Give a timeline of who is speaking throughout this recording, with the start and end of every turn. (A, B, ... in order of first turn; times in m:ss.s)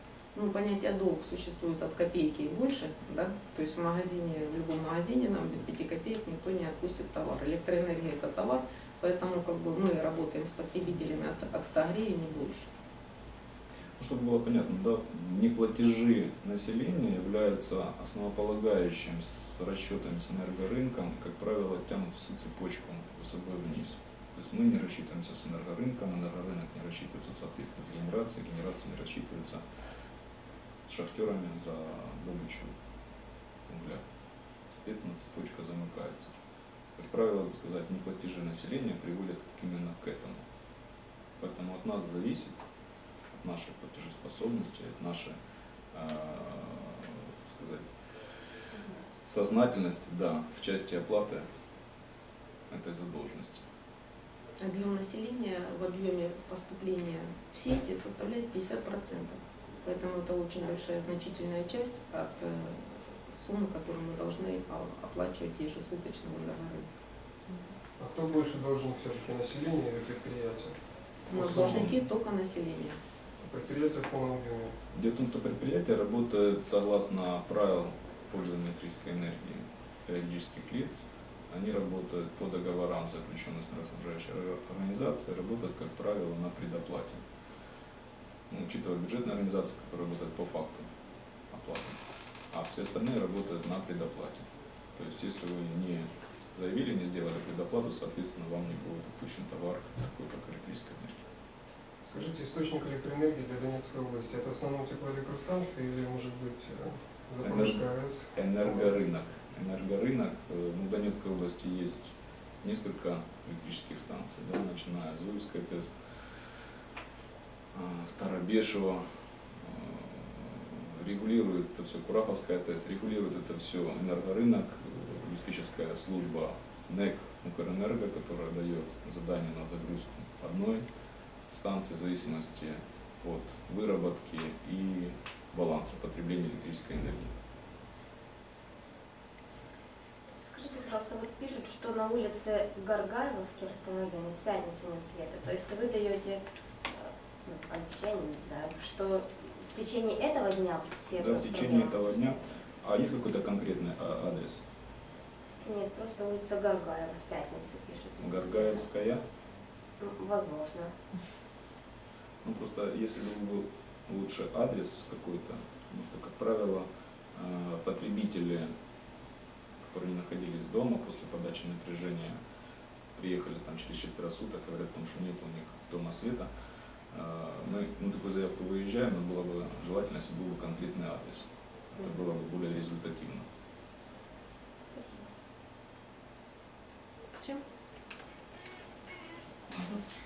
0:00.4-0:12.7 A
0:14.0-0:29.6 B
0:30.9-0:32.7 B
0:33.7-0:34.0 B
0:34.8-0:36.3 B
0:37.0-0:40.4 B
0:41.4-0:42.6 B
0:43.3-0:45.4 B
0:45.9-0:48.4 B
0:49.2-0:51.5 B
0:52.7-0:53.6 B
0:54.6-1:06.9 A
1:08.0-1:10.8 C
1:11.3-1:13.0 A
1:11.3-1:11.9 C
1:11.3-1:12.0 B
1:13.4-1:14.8 C
1:14.9-1:27.2 B
1:28.5-1:30.8 B
1:31.5-1:41.2 B
1:42.0-1:48.9 C
1:47.4-1:56.0 B
1:57.7-2:10.8 B
2:11.5-2:17.3 B
2:20.4-2:32.4 D
2:31.1-2:34.6 B
2:35.6-2:38.8 D
2:38.2-2:39.2 B
2:40.0-2:41.0 D
2:42.4-2:48.7 B
2:49.8-2:52.4 B
2:53.2-2:56.5 B
2:57.1-3:03.5 B
3:04.9-3:05.3 D